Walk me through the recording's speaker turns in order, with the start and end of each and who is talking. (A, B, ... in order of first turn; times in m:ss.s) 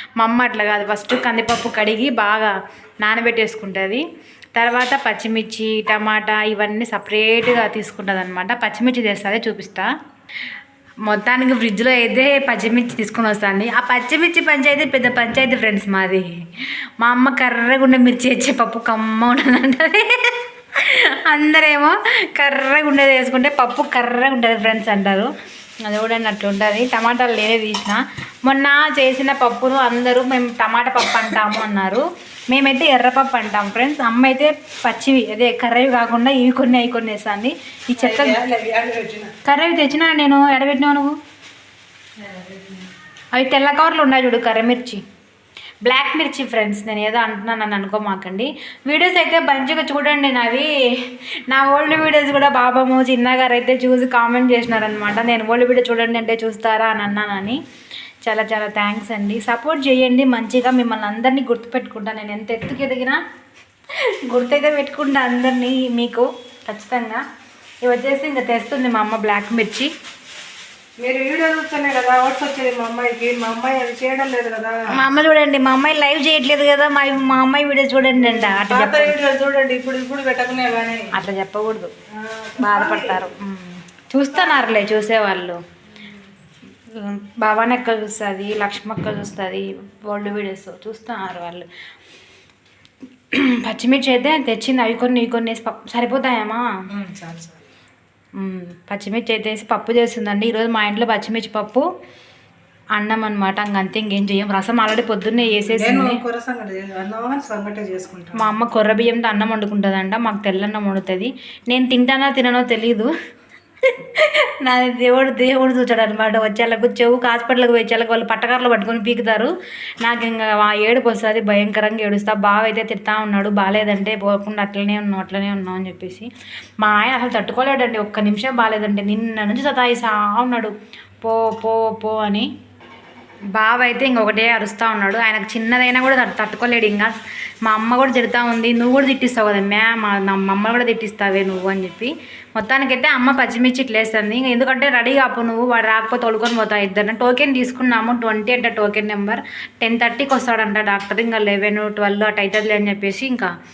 0:00.2-0:04.0 A
0:04.5-0:09.9 A
0:11.1-0:25.3 A
0:25.8-0:38.4 A
0:38.0-0:39.3 B
0:39.4-0:41.2 A
0:42.2-0:42.9 B
0:43.3-0:45.0 A
0:45.8-0:57.6 A
0:58.2-1:03.2 A
1:04.3-1:07.2 A
1:07.8-1:09.9 A
1:11.0-1:14.8 B
1:14.9-1:19.1 A
1:18.2-1:21.1 B
1:21.1-1:21.9 A
1:22.1-1:23.2 B
1:22.6-1:25.6 A
1:24.3-1:24.7 B
1:26.9-1:31.7 A
1:33.3-1:36.6 A
1:36.9-1:37.6 B
1:38.4-1:41.8 A
1:43.0-1:46.2 A
1:45.5-1:48.5 B
1:48.3-1:53.1 A
1:53.8-1:59.5 A
2:00.0-2:06.3 A
2:06.8-2:12.5 A
2:13.5-2:17.1 A
2:17.6-2:33.5 A